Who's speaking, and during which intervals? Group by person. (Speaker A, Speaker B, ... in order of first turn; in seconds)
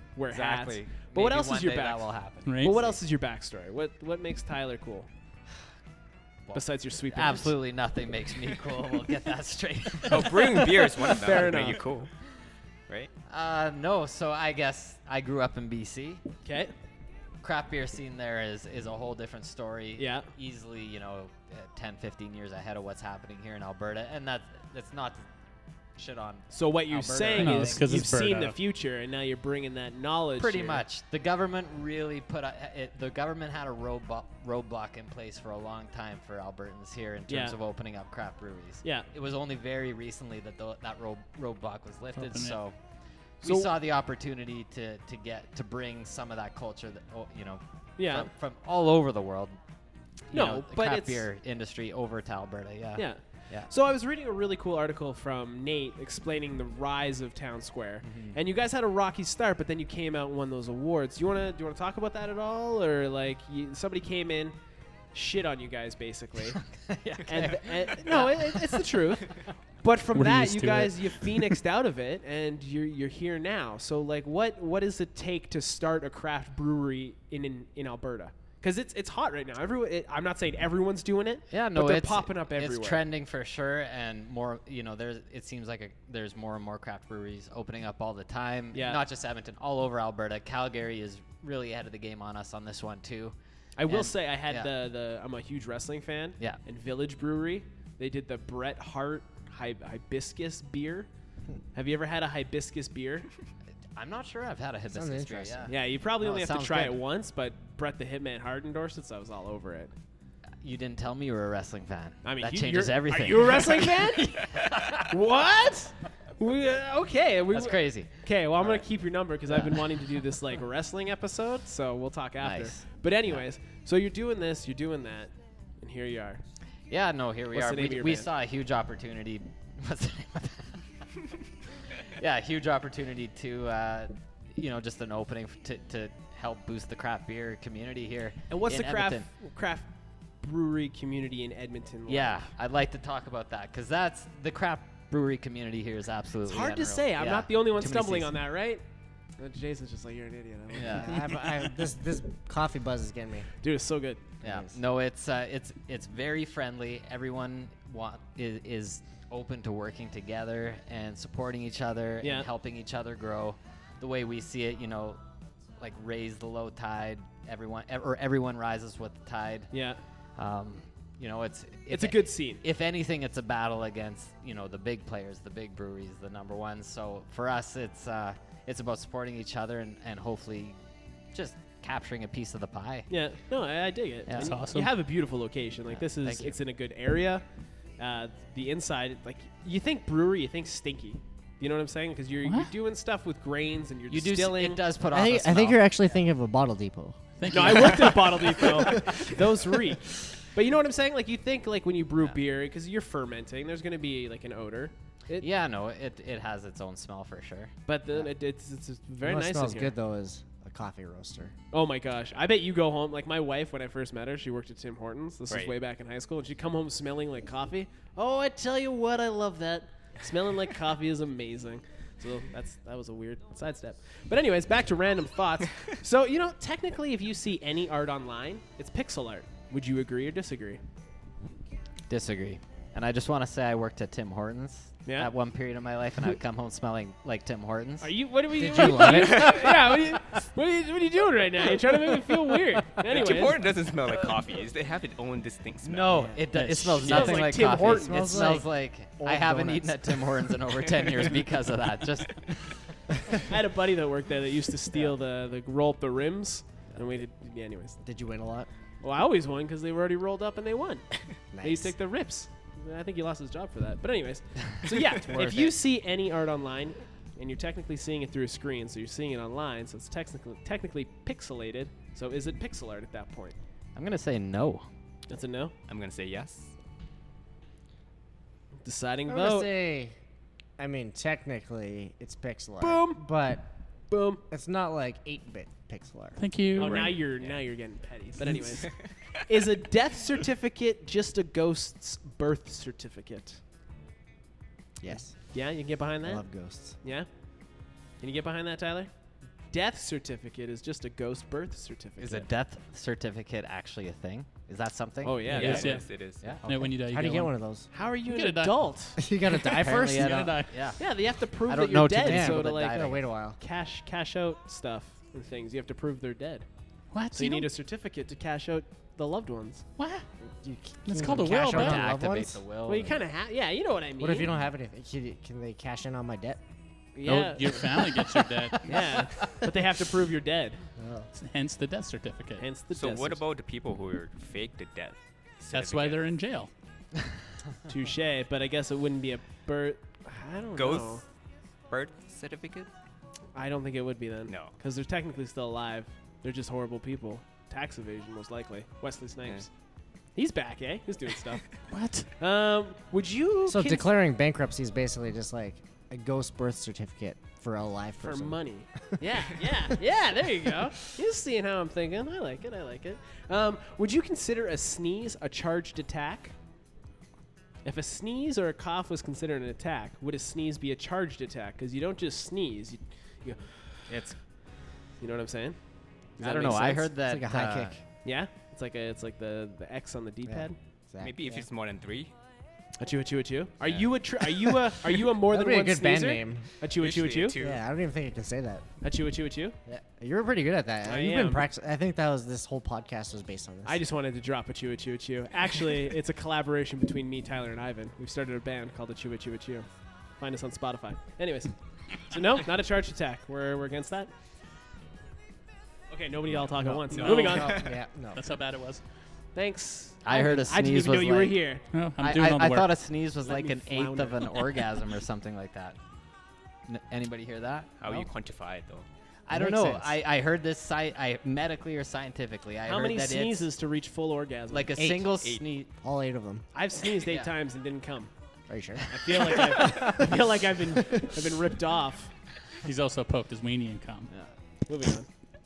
Speaker A: 0.1-5.1, 6.5-7.5, 11.0-11.8, 16.4-16.7, 20.0-20.3, 26.5-30.8, 37.3-37.6, 43.4-43.8, 48.0-48.3, 50.3-51.3, 53.0-64.5, 65.1-66.6, 67.2-83.0, 88.7-89.0, 93.8-101.1, 101.7-103.3, 105.7-109.9, 112.2-126.4, 127.5-128.3, 138.5-139.9, 140.4-142.4, 146.5-148.8, 149.4-151.2, 153.6-154.2, 162.2-162.5, 169.7-170.0, 171.9-172.6, 183.1-187.4, 188.0-194.8, 197.5-205.5, 207.9-209.9, 211.7-230.8, 235.1-235.3, 238.0-243.6, 246.9-248.5, 253.5-258.0, 259.0-273.6, 275.3-275.7, 278.8-279.7, 282.8-283.2, 284.1-284.4, 286.7-288.9, 289.4-293.6, 295.2-296.4, 297.0-297.3, 298.2-299.1, 299.7-302.5, 305.2-306.1, 307.9-309.2, 311.0-313.0, 313.6-316.6, 317.3-319.8, 322.9-324.5, 327.1-328.1, 328.8-330.8, 332.6-333.4, 337.9-341.2, 343.5-349.7, 350.4-351.6, 352.4-354.1, 358.2-366.5, 367.8-374.0, 375.2-375.8, 376.4-377.1, 378.2-380.8, 383.0-387.6, 389.0-389.8, 391.0-391.7, 393.8-399.9, 400.4-404.3, 406.1-407.8, 409.5-411.8, 413.4-414.5, 422.9-424.9, 426.7-428.3, 429.1-432.3, 434.9-435.3
Speaker B: 0.3-3.0, 6.5-10.8, 13.3-16.2, 17.4-25.2, 25.9-27.9, 30.4-42.8, 43.4-49.6, 50.3-53.7, 58.0-58.4, 66.5-69.4, 81.5-93.3, 93.8-94.7, 103.9-107.0, 110.6-115.2, 117.5-118.8, 119.5-120.0, 122.4-123.4, 126.9-130.8, 132.0-139.3, 142.1-148.4, 150.7-151.3, 154.4-165.2, 165.8-169.7, 170.3-180.8, 181.3-183.1, 184.3-184.6, 185.9-186.6, 194.1-196.2, 205.4-207.7, 232.1-238.1, 238.7-239.4, 245.8-252.8, 273.9-274.9, 302.2-305.8, 306.4-306.9, 309.6-311.0, 311.6-313.3, 321.3-323.2, 374.1-374.4, 376.4-378.0, 410.2-411.6, 412.2-416.0, 416.9-418.3, 419.5-423.7, 424.7-425.9, 427.2-427.5
Speaker C: 2.5-2.8, 27.4-28.6, 42.2-42.6, 70.1-71.6, 184.3-184.9, 192.4-192.7, 197.4-198.2, 286.4-287.2, 288.4-288.8, 305.5-307.5, 308.2-308.9, 310.1-310.8, 317.1-317.7, 320.0-320.2, 321.0-322.1, 327.2-328.9, 331.3-332.6, 335.7-336.7, 351.9-352.3, 407.1-407.8, 408.3-409.0, 411.9-412.9, 432.8-434.3
Speaker D: 10.1-12.1, 215.5-215.7, 239.1-239.6, 243.0-246.4, 275.9-276.7, 286.8-287.6, 288.8-289.1, 305.5-306.5, 332.9-336.2, 340.8-341.2, 341.9-342.9, 344.5-344.7, 381.2-382.3, 387.0-387.8, 407.2-407.9, 418.0-419.1
Speaker E: 104.9-105.7, 150.9-153.5, 154.4-154.7, 195.1-199.2, 209.2-211.5, 238.6-239.8, 246.2-250.5, 258.0-258.7, 261.5-261.9, 265.3-265.7, 279.3-280.1, 280.8-283.6, 284.5-286.4, 295.0-295.5, 296.2-297.0, 307.0-307.9, 309.2-310.5, 312.2-313.6, 320.6-322.6, 324.2-326.6, 331.0-331.3, 353.7-358.6, 377.2-378.0, 380.5-381.6, 385.4-386.7, 387.6-388.9, 389.9-394.0, 406.8-408.4, 419.5-420.2, 425.0-425.3, 426.0-426.6, 428.7-430.1